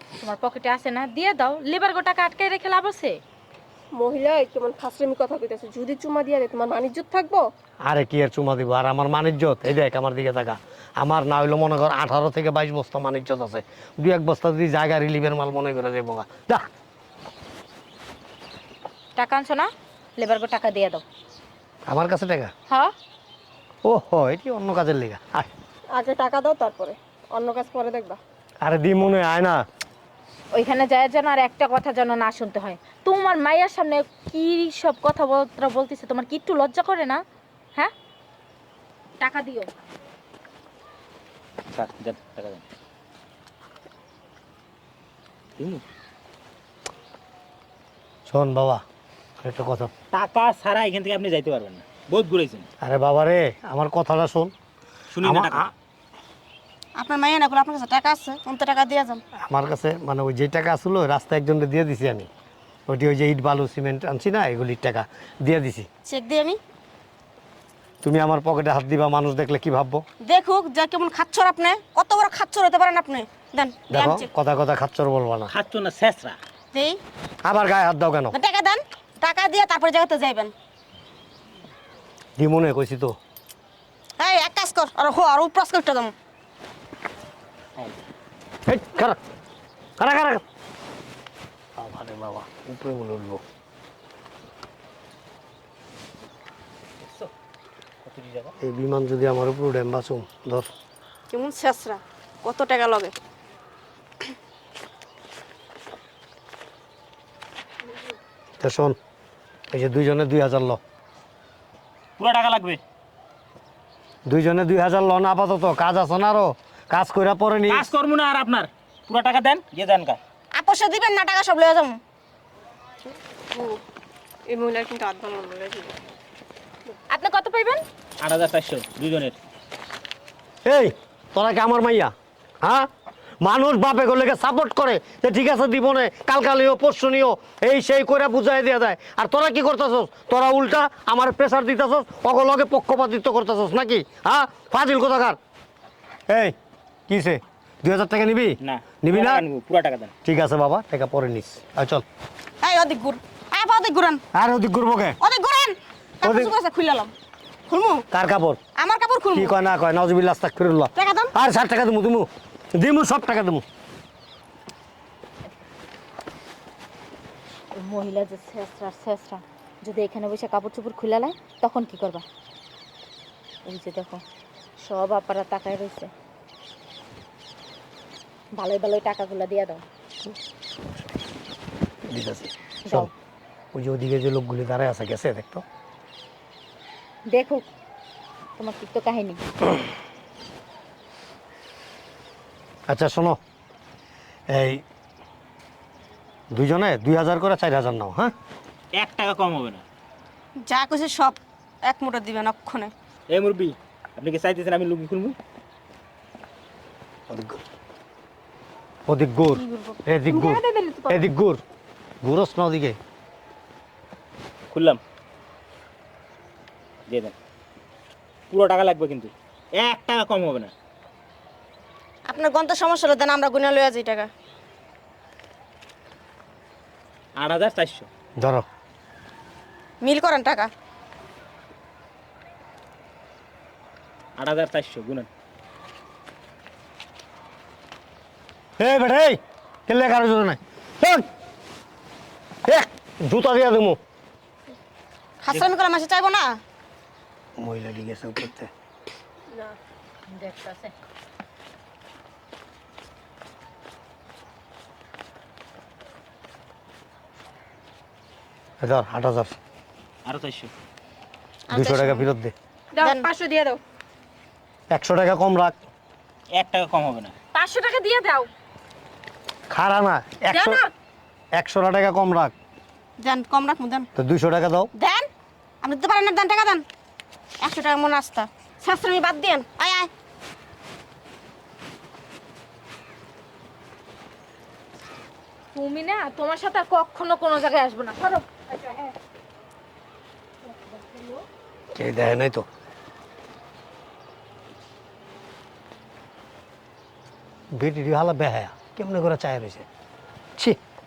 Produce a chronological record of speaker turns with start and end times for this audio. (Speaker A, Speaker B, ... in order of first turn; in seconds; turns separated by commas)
Speaker A: 0.2-3.2, Speaker B: 4.0-7.5, Speaker C: 7.9-16.6, Speaker A: 19.2-21.0, Speaker C: 21.9-22.5, Speaker C: 23.9-25.5, Speaker B: 25.9-28.2, Speaker C: 28.6-29.6, Speaker A: 30.5-37.2, Speaker A: 39.2-39.7, Speaker D: 41.7-42.6, Speaker C: 48.3-48.8, Speaker C: 49.4-49.9, Speaker D: 50.1-52.7, Speaker C: 52.8-54.5, Speaker D: 55.1-55.7, Speaker C: 55.2-55.7, Speaker E: 57.0-59.2, Speaker C: 59.4-62.3, Speaker C: 62.9-65.9, Speaker E: 66.0-66.6, Speaker C: 68.0-70.0, Speaker E: 70.2-74.3, Speaker C: 73.9-75.5, Speaker D: 75.5-76.4, Speaker E: 76.7-77.0, Speaker C: 77.4-78.3, Speaker E: 78.3-80.5, Speaker C: 82.4-83.2, Speaker E: 84.2-86.1, Speaker C: 88.7-89.2, Speaker C: 90.0-90.4, Speaker C: 91.8-93.4, Speaker D: 97.0-97.3, Speaker D: 98.0-98.5, Speaker C: 98.6-100.7, Speaker E: 101.3-103.1, Speaker C: 108.6-109.0, Speaker C: 109.7-110.8, Speaker D: 112.2-112.8, Speaker C: 114.3-117.9, Speaker D: 117.7-120.2, Speaker E: 120.5-122.0, Speaker B: 123.5-123.8, Speaker B: 124.5-125.9, Speaker A: 127.1-127.8, Speaker D: 128.2-129.4, Speaker C: 130.7-132.9, Speaker C: 133.4-145.4, Speaker C: 146.3-146.6, Speaker C: 147.1-149.4, Speaker D: 148.6-150.1, Speaker C: 150.2-152.1, Speaker E: 152.6-154.2, Speaker C: 154.3-155.2, Speaker E: 155.2-157.1, Speaker C: 156.2-156.5, Speaker E: 157.7-158.1, Speaker C: 158.1-158.6, Speaker E: 158.8-159.6, Speaker C: 159.3-163.6, Speaker E: 161.0-161.3, Speaker A: 167.8-172.2, Speaker A: 173.7-174.2, Speaker A: 174.8-176.1, Speaker A: 178.6-179.8, Speaker C: 182.1-183.1, Speaker A: 182.8-183.1, Speaker C: 183.7-185.6, Speaker A: 187.3-187.7, Speaker A: 188.6-189.4, Speaker C: 192.9-193.4, Speaker C: 194.5-194.8, Speaker C: 196.5-198.3, Speaker D: 199.0-199.8, Speaker E: 200.6-202.9, Speaker D: 203.3-205.4, Speaker C: 207.3-207.6, Speaker C: 209.1-211.6, Speaker B: 209.8-211.2, Speaker C: 212.2-213.0, Speaker D: 214.7-215.0, Speaker D: 217.1-217.3, Speaker D: 218.5-220.7, Speaker E: 222.3-224.3, Speaker D: 227.4-228.1, Speaker C: 228.4-228.7, Speaker E: 230.0-230.7, Speaker D: 234.4-235.3, Speaker C: 238.8-241.2, Speaker C: 242.7-244.0, Speaker E: 245.4-246.6, Speaker C: 247.6-248.7, Speaker A: 250.3-250.9, Speaker C: 258.8-259.6, Speaker D: 260.3-260.7, Speaker E: 261.7-262.3, Speaker C: 261.7-262.5, Speaker B: 263.0-263.8, Speaker E: 263.0-263.3, Speaker C: 264.9-265.8, Speaker D: 266.5-267.3, Speaker A: 267.5-268.5, Speaker C: 269.7-270.8, Speaker C: 271.5-272.5, Speaker E: 273.2-274.1, Speaker C: 274.2-274.9, Speaker E: 274.9-275.3, Speaker E: 275.8-276.9, Speaker E: 277.6-280.1, Speaker A: 285.8-289.1, Speaker A: 290.6-291.4, Speaker C: 291.9-292.7, Speaker C: 297.8-299.9